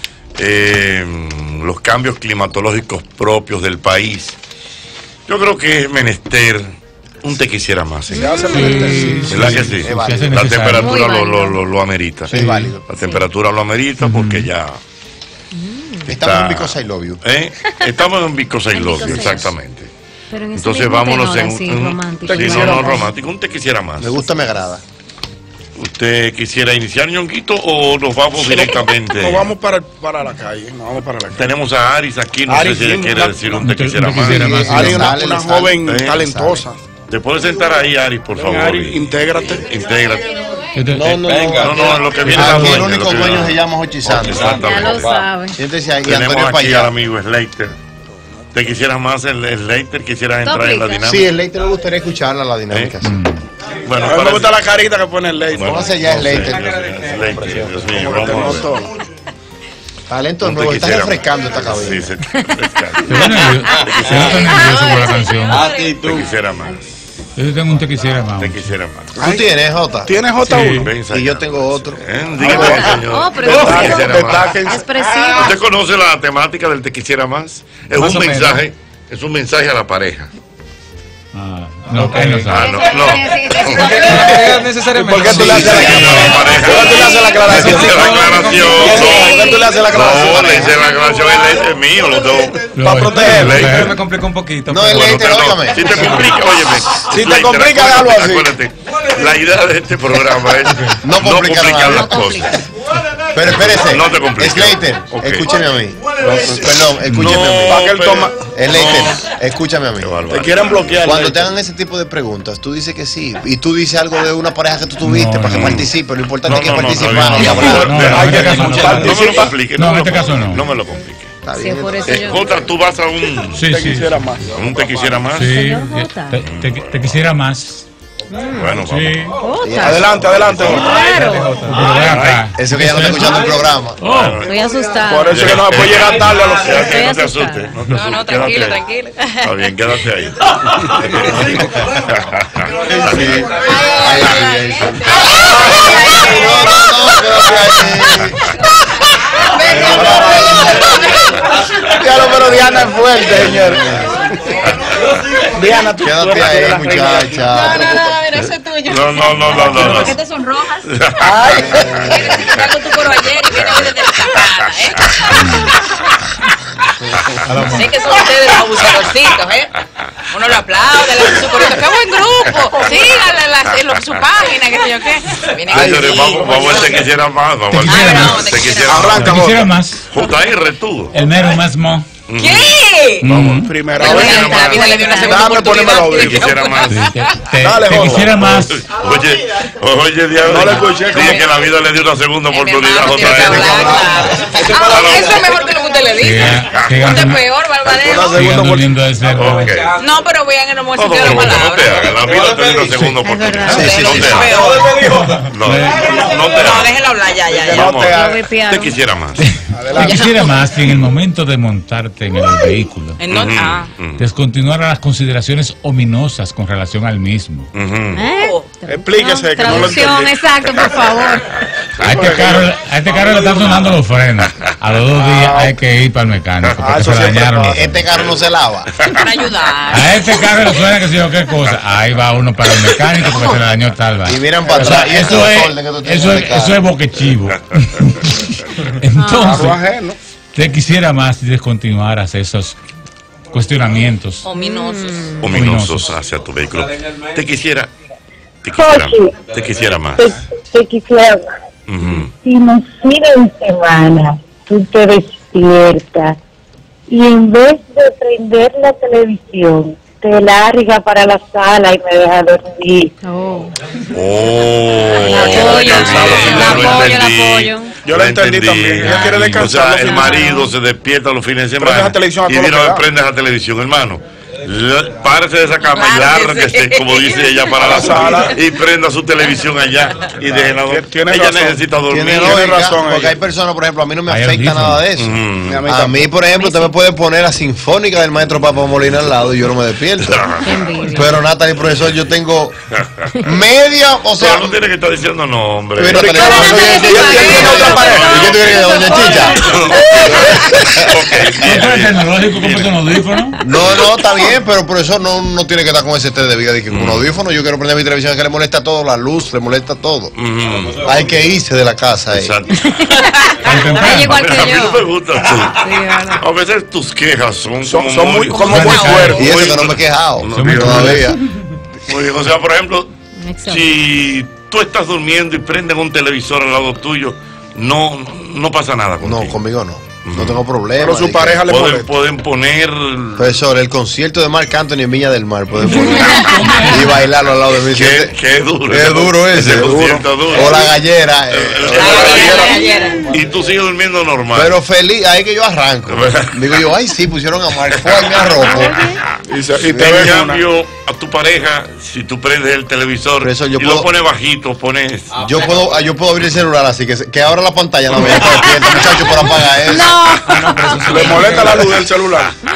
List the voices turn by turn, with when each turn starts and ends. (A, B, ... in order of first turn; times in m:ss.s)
0:00.4-0:04.4 A
0:05.3-0:08.4 A
0:08.1-0:09.4 B
0:08.2-0:09.7 C
0:08.5-0:11.0 D
0:09.3-0:12.3 A
0:09.8-0:10.4 E
0:10.7-0:11.6 B
0:12.3-0:12.8 E
0:12.3-0:12.8 D
0:12.9-0:14.8 A
0:12.9-0:13.3 B
0:14.0-0:14.5 D
0:15.5-0:16.1 B
0:16.1-0:17.2 E
0:16.1-0:19.9 A
0:18.7-0:19.5 B
0:20.3-0:23.0 B
0:20.6-0:24.2 A
0:22.2-0:23.1 C
0:24.0-0:24.8 E
0:25.8-0:29.5 A
0:28.4-0:31.4 C
0:31.4-0:34.6 A
0:32.5-0:33.7 C
0:33.6-0:35.2 D
0:34.3-0:36.6 E
0:34.7-0:36.8 C
0:35.8-0:36.2 A
0:37.1-0:40.3 A
0:38.3-0:39.7 C
0:40.0-0:40.8 B
0:40.7-0:41.3 D
0:40.9-0:44.8 E
0:41.3-0:45.2 A
0:44.5-0:45.6 B
0:45.5-0:46.9 E
0:46.0-0:47.8 A
0:48.5-0:51.3 A
0:50.4-0:51.2 B
0:51.0-0:53.2 E
0:52.7-0:53.0 A
0:53.0-0:53.4 D
0:53.8-0:54.6 A
0:54.0-0:55.8 C
0:55.5-0:58.7 A
0:55.6-0:56.7 E
0:57.9-0:58.9 C
1:00.1-1:02.1 E
1:00.4-1:03.3 A
1:03.1-1:05.7 D
1:03.4-1:06.0 B
1:04.5-1:04.9 F
1:05.8-1:07.0 A
1:07.4-1:08.7 D
1:08.4-1:09.2 A
1:09.2-1:09.5 C
1:09.2-1:12.9 E
1:10.0-1:10.9 C
1:10.5-1:10.8 D
1:10.5-1:14.6 A
1:12.4-1:12.9 C
1:13.0-1:15.6 B
1:13.4-1:15.2 C
1:15.3-1:20.3 A
1:18.0-1:18.6 G
1:21.3-1:22.7 D
1:22.5-1:24.0 A
1:22.5-1:24.6 B
1:24.1-1:30.7 C
1:24.4-1:25.8 G
1:25.3-1:26.0 E
1:25.3-1:32.7 A
1:25.4-1:26.3 D
1:27.8-1:29.0 G
1:29.0-1:29.6 F
1:32.7-1:34.0 D
1:32.8-1:34.1 C
1:33.2-1:34.0 A
1:33.8-1:35.1 G
1:34.7-1:36.3 E
1:34.9-1:42.6 A
1:37.0-1:38.5 C
1:41.0-1:42.4 E
1:41.8-1:42.6 B
1:43.3-1:50.2 E
1:43.5-1:45.5 A
1:46.2-1:49.2 A
1:47.0-1:47.4 D
1:47.6-1:48.5 C
1:50.0-1:51.0 A
1:50.3-1:51.5 C
1:51.0-1:58.2 E
1:55.0-1:55.8 D
1:55.6-1:55.9 A
1:56.4-2:01.4 A
1:57.3-2:00.7 D
1:57.6-1:59.6 C
2:01.4-2:02.3 E
2:01.5-2:02.6 B
2:02.1-2:03.6 A
2:03.6-2:04.4 D
2:03.6-2:05.3 C
2:04.5-2:05.5 A
2:05.3-2:07.8 D
2:05.5-2:06.4 B
2:06.4-2:07.1 A
2:08.3-2:08.8 B
2:08.6-2:09.3 A
2:08.8-2:09.4 D
2:09.4-2:10.1 B
2:09.6-2:10.7 E
2:09.8-2:11.0 C
2:10.4-2:10.9 A
2:10.6-2:11.7 B
2:11.3-2:14.4 D
2:11.9-2:12.5 A
2:12.6-2:14.0 E
2:14.0-2:14.5 A
2:14.4-2:15.4 B
2:15.0-2:16.8 C
2:15.3-2:18.8 A
2:16.6-2:17.8 B
2:17.9-2:19.4 F
2:19.4-2:23.4 A
2:21.2-2:21.8 E
2:22.8-2:28.4 E
2:23.6-2:27.8 F
2:29.4-2:31.3 F
2:29.7-2:31.0 E
2:29.7-2:30.7 C
2:31.8-2:34.2 E
2:32.2-2:33.9 C
2:35.5-2:37.5 C
2:36.0-2:37.9 E
2:37.5-2:40.8 F
2:38.9-2:40.2 A
2:39.6-2:40.2 B
2:40.9-2:42.6 A
2:41.2-2:42.1 C
2:41.8-2:45.4 F
2:45.4-2:45.7 D
2:47.5-2:47.9 D
2:47.7-2:57.0 F
2:55.7-2:59.4 A
2:55.8-2:56.3 E
2:57.7-2:58.5 D
2:57.9-2:59.2 F
2:58.9-2:59.8 C
2:59.2-3:00.0 D
3:00.1-3:01.2 A
3:01.1-3:02.1 D
3:02.3-3:05.0 A
3:02.4-3:03.2 F
3:03.2-3:03.8 D
3:03.5-3:04.6 C
3:04.0-3:07.4 F
3:04.0-3:05.7 B
3:05.2-3:06.5 C
3:06.1-3:07.1 A
3:06.9-3:08.9 D
3:07.5-3:08.5 C
3:08.4-3:14.2 A
3:10.4-3:11.4 C
3:10.8-3:11.5 F
3:12.5-3:18.5 F
3:13.3-3:14.3 E
3:14.5-3:15.4 C
3:14.7-3:15.5 A
3:16.2-3:17.4 D
3:16.6-3:17.2 A
3:17.9-3:19.0 C
3:18.2-3:19.9 D
3:19.3-3:20.0 A
3:19.9-3:22.2 F
3:21.0-3:24.6 A
3:23.2-3:24.5 B
3:23.7-3:24.4 E
3:23.7-3:25.2 F
3:25.1-3:26.1 D
3:25.3-3:27.0 A
3:26.1-3:28.1 F
3:27.6-3:28.5 C
3:27.7-3:29.5 A
3:28.1-3:29.0 B
3:29.4-3:33.2 D
3:29.7-3:30.4 C
3:33.2-3:33.9 F
3:33.3-3:34.2 A
3:34.2-3:37.7 D
3:37.7-3:38.2 A
3:38.2-3:41.6 B
3:38.3-3:38.7 F
3:38.9-3:40.4 C
3:42.0-3:44.0 C
3:42.0-3:48.1 D
3:45.1-3:45.8 C
3:46.8-3:47.9 C
3:47.7-3:48.9 E
3:49.2-3:50.4 F
3:49.9-3:59.8 D
3:54.3-3:56.9 E
3:54.7-3:55.1 C
3:59.2-3:59.6 B
3:59.4-4:00.2 C
4:00.5-4:02.8 D
4:03.5-4:04.4 D
4:04.4-4:05.4 F
4:04.5-4:05.5 B
4:05.4-4:07.9 A
4:05.5-4:06.1 D
4:08.6-4:10.4 A
4:08.8-4:09.4 H
4:10.1-4:11.6 H
4:11.9-4:12.3 A
4:12.4-4:16.4 H
4:17.1-4:23.1 H
4:23.2-4:23.7 B
4:24.1-4:42.9 A
4:25.2-4:28.0 B
4:25.2-4:27.0 C
4:25.6-4:26.8 F
4:28.0-4:30.4 C
4:30.0-4:30.7 B
4:31.8-4:33.1 C
4:35.8-4:37.8 F
4:37.8-4:38.6 C
4:40.5-4:41.8 C
4:42.1-4:52.8 E
4:42.4-4:43.4 C
4:44.3-4:45.0 D
4:45.2-4:45.8 A
4:45.6-4:46.3 C
4:46.4-4:47.0 B
4:50.2-4:50.8 A
4:50.6-4:51.4 B
4:52.9-4:53.3 A
4:53.4-4:54.8 E
4:54.4-5:03.0 A
4:56.0-5:01.6 E
4:56.1-4:58.4 C
4:56.4-5:00.9 B
5:01.6-5:03.6 D
5:03.6-5:10.3 E
5:03.7-5:04.0 A
5:06.9-5:07.4 A
5:10.4-5:11.3 A
5:11.0-5:12.6 E
5:12.3-5:13.1 A
5:12.8-5:15.1 B
5:13.6-5:14.4 D
5:14.0-5:21.3 A
5:15.6-5:16.4 B
5:17.8-5:19.5 C
5:18.6-5:19.3 D
5:19.4-5:21.4 E
5:20.5-5:21.4 D
5:22.1-5:23.1 A
5:23.4-5:23.9 B
5:23.7-5:29.6 A
5:29.2-5:31.6 E
5:30.2-5:30.6 A
5:31.0-5:32.1 C
5:31.7-5:33.6 A
5:33.4-5:42.5 E
5:35.9-5:36.7 B
5:36.4-5:37.0 D
5:37.9-5:40.9 A
5:41.5-5:44.7 A
5:42.0-5:43.3 F
5:42.6-5:43.1 B
5:44.5-5:49.0 E
5:46.1-5:46.6 A
5:48.1-5:48.5 A
5:48.6-5:49.2 B
5:49.5-5:50.6 C
5:49.8-5:55.6 A
5:53.4-5:54.1 E
5:55.4-6:00.2 E
5:59.8-6:01.0 B
6:00.6-6:01.8 G
6:01.0-6:02.6 C